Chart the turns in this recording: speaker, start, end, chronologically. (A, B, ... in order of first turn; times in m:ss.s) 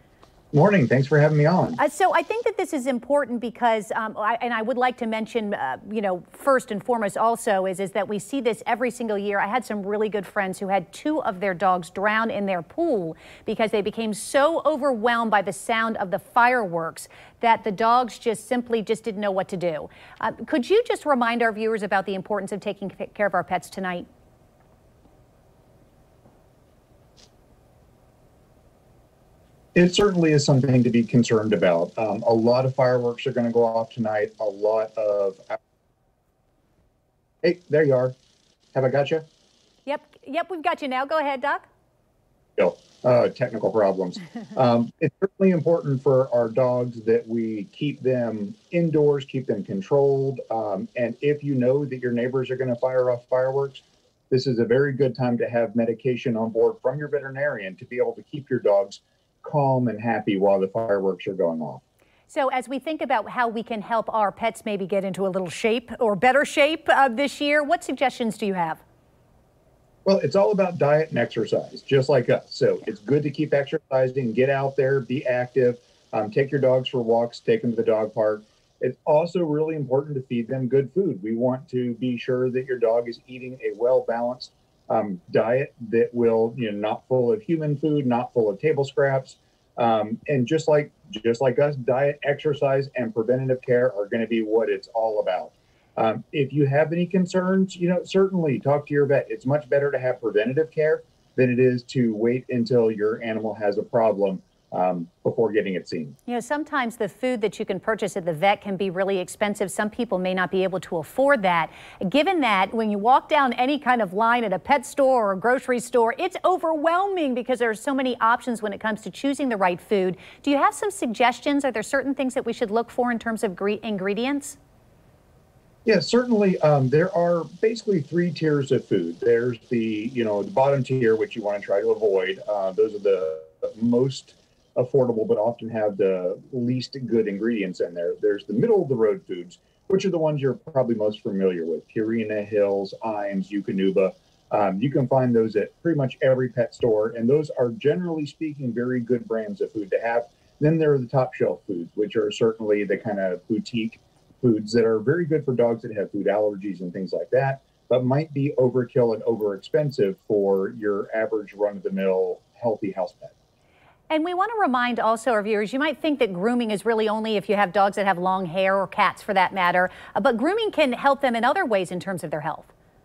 0:00.5-0:01.8 A
0:01.8-0:24.0 B
0:29.7-0:35.6 A
0:37.4-0:38.2 A
0:38.7-0:39.2 A
0:39.8-0:41.6 B
0:42.6-1:01.8 A
1:02.3-1:08.8 B
1:10.0-1:46.2 A
1:46.3-2:04.6 B
2:05.8-2:43.3 A
2:44.1-2:52.7 B